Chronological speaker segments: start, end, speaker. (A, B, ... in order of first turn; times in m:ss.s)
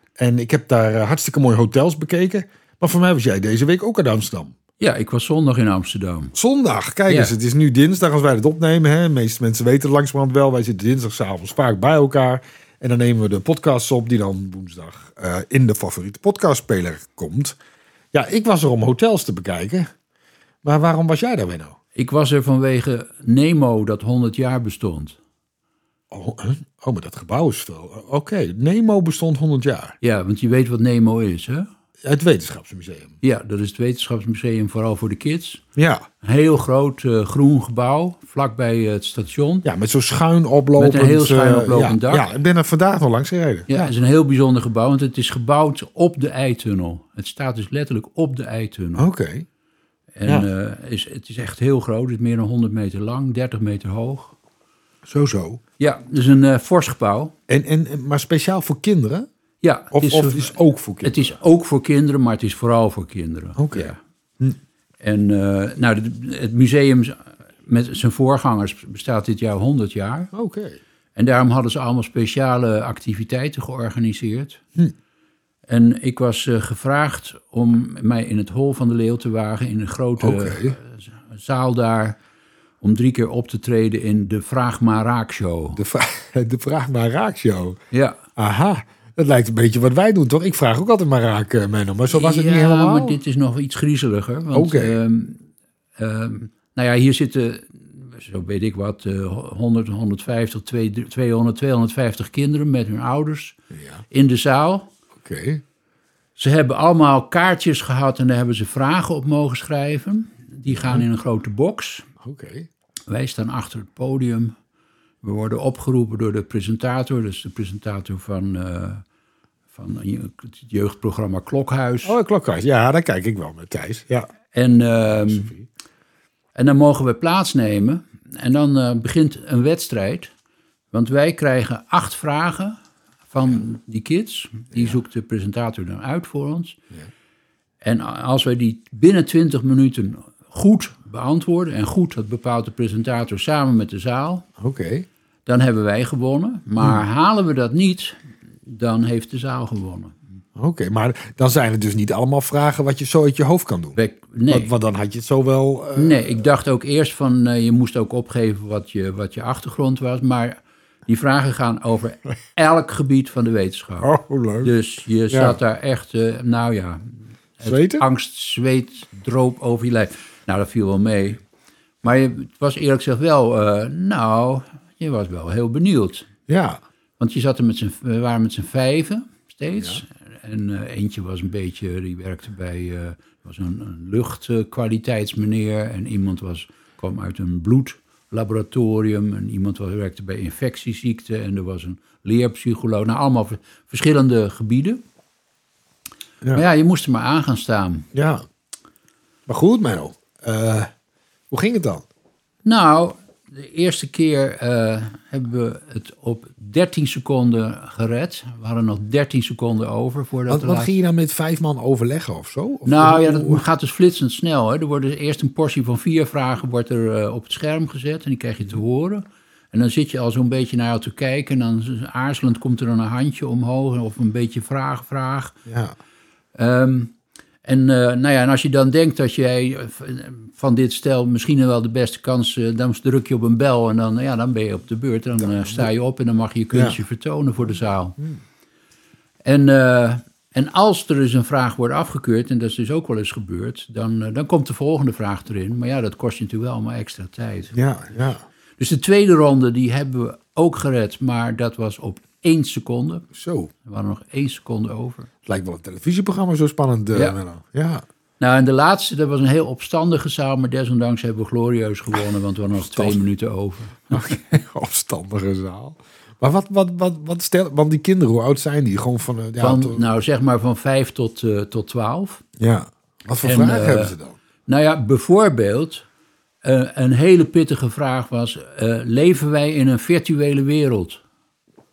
0:00.2-0:04.5 A
0:04.8-0:06.3 B
0:06.4-0:17.6 A
0:18.1-0:19.9 A
0:20.6-0:21.8 A
0:22.0-0:25.2 B
0:26.1-0:30.0 A
0:30.0-0:31.7 B
0:32.0-0:33.2 A
0:33.2-0:35.6 B
0:35.8-0:36.1 A
0:36.2-0:39.7 B
0:39.6-0:43.9 A
0:40.8-0:42.3 B
0:43.7-0:49.0 B
0:49.0-0:49.5 A
0:50.2-0:54.4 B
0:55.0-0:55.6 A
0:55.8-0:57.3 B
0:57.5-0:59.3 A
0:59.6-1:04.0 B
0:59.9-1:01.4 A
1:03.6-1:04.6 A
1:05.0-1:10.3 B
1:10.3-1:10.8 A
1:11.2-1:14.6 B
1:15.7-1:22.2 B
1:20.2-1:20.8 A
1:22.8-1:25.8 B
1:25.8-1:27.8 A
1:27.9-1:28.2 B
1:28.4-1:33.2 A
1:32.1-1:35.5 B
1:34.5-1:35.0 A
1:36.0-1:43.6 B
1:43.7-1:44.0 A
1:44.1-1:44.9 B
1:45.2-1:45.6 A
1:46.4-1:52.1 B
1:50.7-1:51.1 A
1:52.2-1:52.7 A
1:53.1-1:54.5 B
1:55.2-1:59.0 B
1:59.7-2:02.2 B
2:02.0-2:04.3 A
2:04.5-2:05.5 B
2:05.1-2:05.7 A
2:06.6-2:10.3 B
2:10.9-2:12.8 B
2:13.3-2:16.8 B
2:17.8-2:24.5 B
2:24.6-2:25.1 A
2:25.5-2:30.2 B
2:30.6-2:36.5 A
2:34.0-2:34.7 B
2:36.0-2:44.1 B
2:44.0-2:44.7 A
2:44.6-2:51.4 B
2:45.3-2:45.6 A
2:47.6-2:48.0 A
2:52.0-2:56.3 B
2:56.5-2:56.8 A
2:57.2-3:15.0 B
3:16.5-3:18.1 B
3:18.1-3:18.4 A
3:19.5-3:20.9 A
3:21.5-3:22.0 A
3:22.6-3:30.9 B
3:30.5-3:33.6 A
3:32.8-3:45.6 B
3:45.7-3:46.0 A
3:46.6-3:58.2 B
3:55.4-3:55.9 A
3:56.7-3:57.0 A
3:57.6-3:58.4 A
3:59.4-4:07.7 B
4:07.7-4:08.4 A
4:08.8-4:13.3 B
4:13.3-4:13.7 A
4:13.8-4:15.3 B
4:15.5-4:18.0 A
4:18.4-4:24.2 B
4:22.8-4:23.2 A
4:24.1-4:30.1 A
4:29.6-4:32.4 B
4:32.6-4:34.4 A
4:33.4-4:34.2 B
4:34.7-4:36.0 B
4:36.6-4:41.2 B